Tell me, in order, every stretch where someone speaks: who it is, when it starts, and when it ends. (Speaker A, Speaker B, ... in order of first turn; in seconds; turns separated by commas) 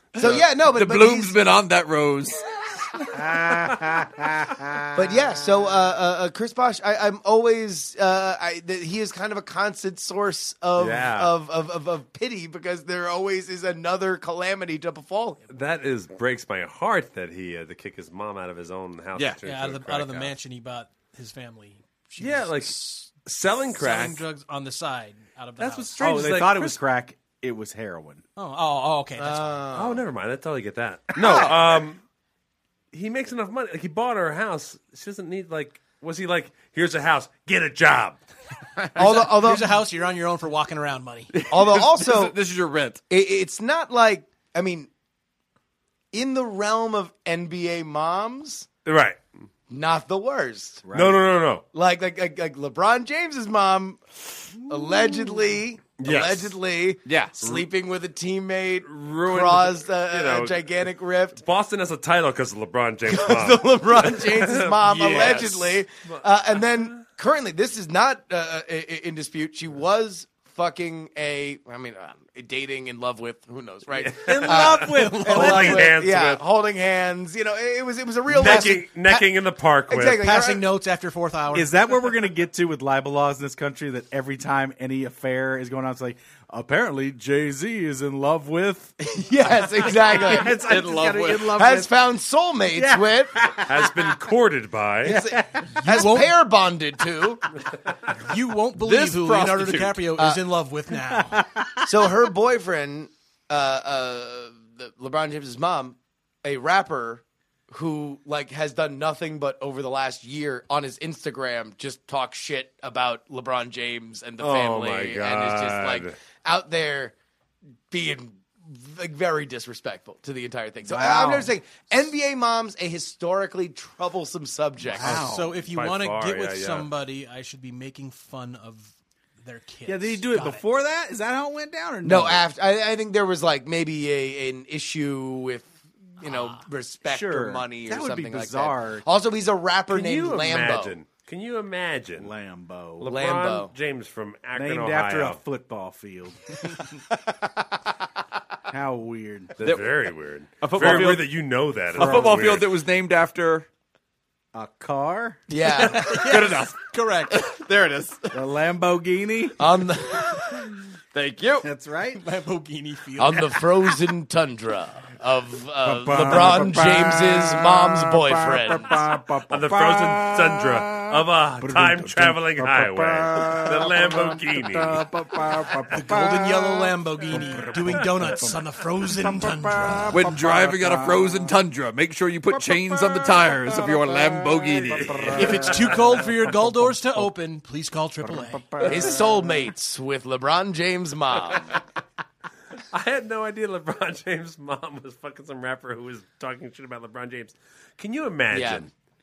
Speaker A: 0.1-1.4, Speaker B: 0.2-3.2, Speaker C: 3.1-5.8, Speaker A: 4.9-15.4, Speaker D: 10.8-11.3, Speaker D: 15.5-20.3, Speaker E: 19.4-23.1, Speaker D: 22.2-24.2, Speaker E: 23.7-26.0, Speaker D: 25.6-26.8, Speaker C: 25.9-28.2, Speaker E: 28.4-29.6, Speaker A: 29.2-30.0, Speaker D: 29.7-32.0, Speaker B: 31.2-31.6, Speaker D: 32.9-38.2, Speaker A: 39.0-39.7, Speaker E: 39.0-41.3, Speaker B: 41.3-43.0, Speaker A: 41.5-42.3, Speaker A: 43.1-44.9, Speaker A: 46.1-48.7, Speaker D: 48.8-49.2, Speaker A: 49.7-50.8, Speaker C: 50.8-51.2, Speaker D: 50.9-51.6, Speaker A: 51.7-54.0, Speaker A: 54.6-61.4, Speaker D: 56.0-56.5, Speaker B: 57.0-57.6, Speaker B: 58.9-59.6, Speaker D: 59.2-60.7, Speaker D: 61.3-67.0, Speaker A: 63.1-79.2, Speaker E: 65.1-65.6, Speaker D: 74.0-76.4, Speaker C: 74.2-75.9, Speaker D: 78.3-80.2, Speaker E: 78.4-78.8, Speaker A: 79.9-80.6, Speaker E: 80.2-81.7, Speaker C: 81.5-91.9, Speaker A: 89.1-90.7, Speaker B: 90.6-91.5, Speaker A: 91.4-93.3, Speaker C: 92.7-94.2, Speaker D: 93.6-95.2, Speaker C: 95.0-96.1, Speaker A: 95.0-97.4, Speaker E: 95.8-96.3, Speaker E: 98.2-101.4, Speaker B: 98.8-100.0, Speaker A: 100.2-100.4, Speaker C: 101.0-101.9, Speaker A: 101.8-117.1, Speaker D: 114.4-116.1, Speaker A: 117.9-125.3, Speaker C: 120.8-121.5, Speaker C: 124.8-125.5, Speaker E: 125.1-128.9, Speaker D: 125.6-126.9, Speaker E: 129.4-130.6, Speaker C: 129.8-132.4, Speaker A: 132.0-140.9, Speaker E: 136.2-136.6, Speaker C: 137.0-139.1, Speaker D: 139.9-142.3, Speaker C: 142.2-143.1, Speaker D: 143.0-145.4, Speaker A: 143.0-143.7, Speaker C: 144.6-146.6, Speaker A: 147.1-147.7, Speaker C: 148.7-149.5, Speaker D: 149.6-152.7, Speaker B: 149.6-150.0, Speaker B: 150.6-151.3, Speaker B: 151.9-153.7, Speaker C: 152.0-152.6, Speaker C: 154.5-155.4, Speaker A: 155.5-156.1, Speaker E: 155.9-157.4, Speaker B: 156.0-156.8, Speaker B: 157.3-158.4, Speaker C: 158.3-159.6, Speaker A: 159.6-160.7, Speaker B: 161.1-161.7, Speaker C: 161.6-162.2, Speaker E: 162.2-164.0, Speaker A: 163.2-168.9, Speaker C: 165.8-181.4, Speaker D: 169.5-175.1, Speaker E: 175.9-180.2, Speaker B: 180.1-185.3, Speaker C: 182.5-185.9, Speaker D: 184.9-186.0, Speaker E: 185.3-188.8, Speaker C: 188.2-189.1, Speaker A: 188.8-191.7, Speaker D: 192.9-198.9, Speaker A: 198.5-198.9